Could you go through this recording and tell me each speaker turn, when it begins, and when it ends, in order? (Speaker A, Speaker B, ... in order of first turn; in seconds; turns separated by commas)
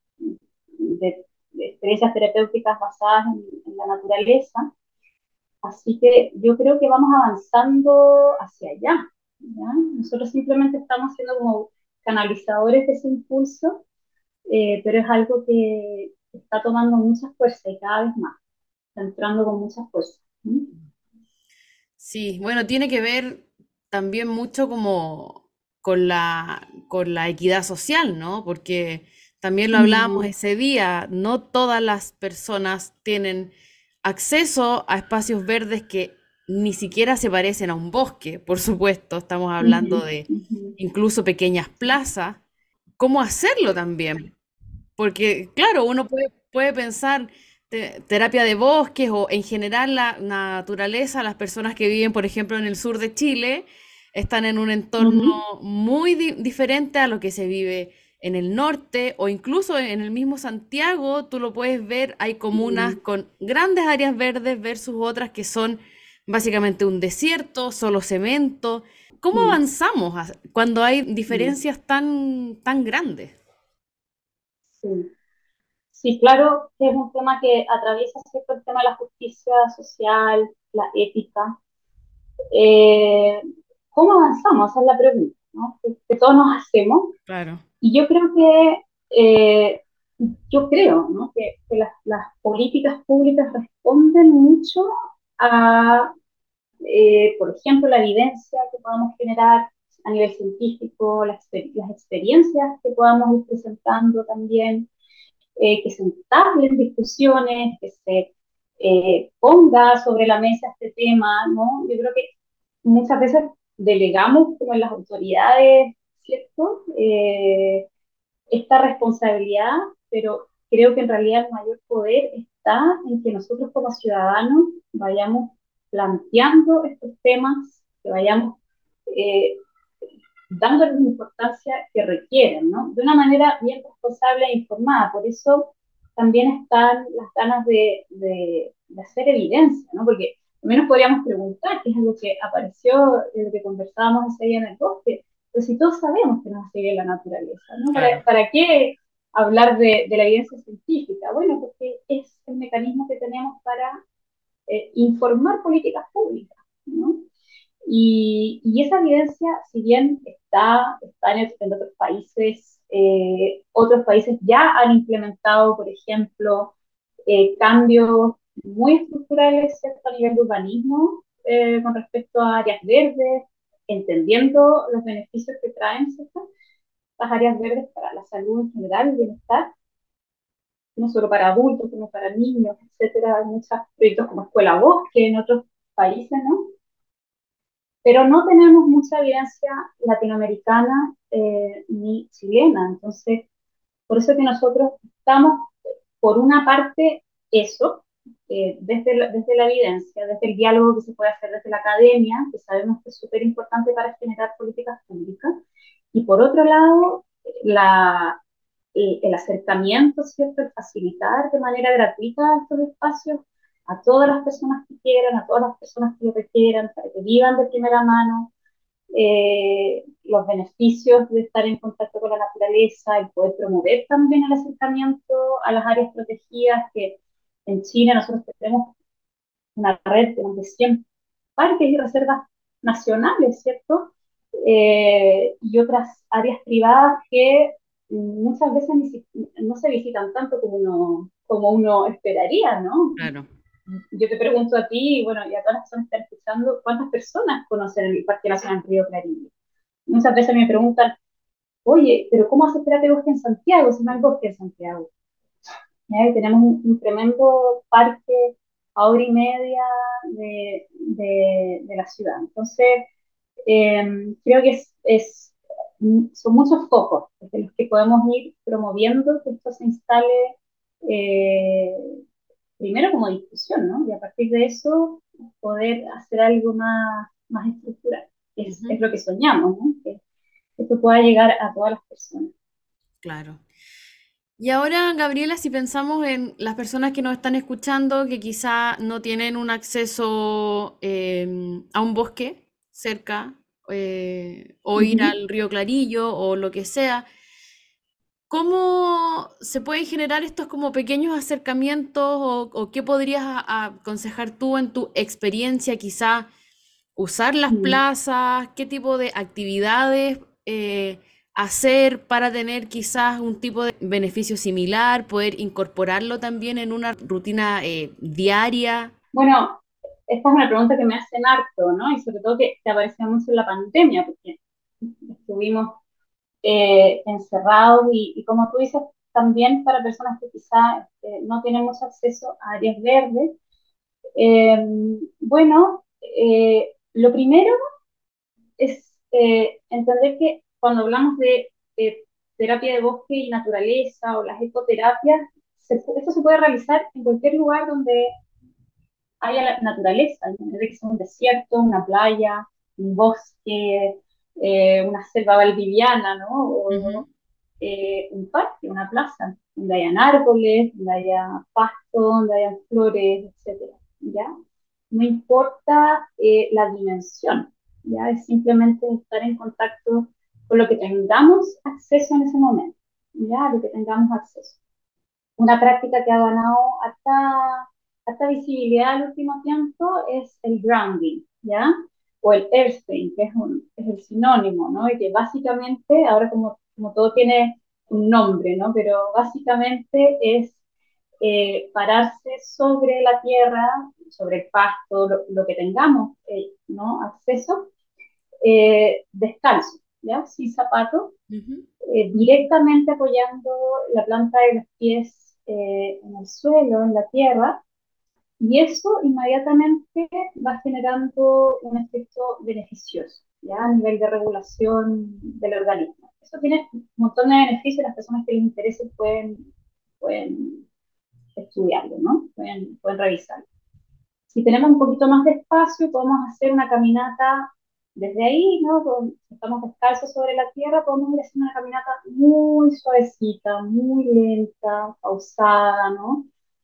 Speaker A: 0.2-4.7, Speaker A: 5.6-13.8, Speaker A: 14.5-18.4, Speaker A: 19.0-20.7, Speaker B: 22.0-33.5, Speaker A: 29.7-30.3, Speaker B: 34.0-42.4, Speaker A: 39.6-40.8, Speaker B: 43.0-44.3, Speaker B: 45.0-73.3, Speaker A: 55.0-55.4, Speaker A: 62.5-63.0, Speaker A: 71.3-71.6, Speaker A: 74.8-75.1, Speaker A: 75.9-81.5, Speaker A: 82.5-87.1, Speaker B: 87.3-87.6, Speaker A: 87.8-96.1, Speaker A: 96.8-104.9, Speaker A: 105.6-112.3, Speaker A: 112.8-117.9, Speaker A: 118.5-128.6, Speaker A: 129.1-129.6, Speaker A: 130.5-154.0, Speaker B: 147.9-148.2, Speaker A: 154.7-157.2, Speaker A: 157.9-166.7, Speaker A: 167.3-176.4, Speaker A: 177.2-179.7, Speaker A: 181.0-186.7, Speaker A: 188.0-193.4, Speaker A: 194.1-205.5, Speaker A: 206.1-208.4, Speaker A: 208.9-218.5, Speaker A: 219.1-228.9, Speaker A: 229.8-231.0, Speaker A: 231.6-243.3, Speaker B: 243.2-243.5, Speaker A: 244.1-249.5, Speaker A: 250.1-251.1, Speaker A: 251.8-255.1, Speaker A: 256.1-263.1, Speaker A: 263.7-272.2, Speaker A: 272.8-280.2, Speaker B: 278.6-279.0, Speaker A: 280.8-282.5, Speaker B: 283.2-283.6, Speaker B: 284.6-297.3, Speaker A: 295.0-295.3, Speaker B: 298.5-306.5, Speaker B: 307.1-319.1, Speaker A: 307.7-308.0, Speaker A: 319.3-324.6, Speaker A: 325.1-326.0, Speaker A: 326.6-333.6, Speaker A: 334.4-337.7, Speaker A: 338.8-348.3, Speaker A: 349.4-357.2, Speaker B: 356.9-357.3, Speaker A: 357.8-364.5, Speaker A: 365.1-374.8, Speaker A: 375.6-390.8, Speaker A: 391.4-397.9, Speaker A: 398.6-401.3, Speaker B: 401.5-401.9, Speaker A: 402.0-407.8, Speaker A: 408.6-419.7, Speaker A: 420.2-420.9, Speaker A: 421.6-423.6, Speaker A: 424.5-436.5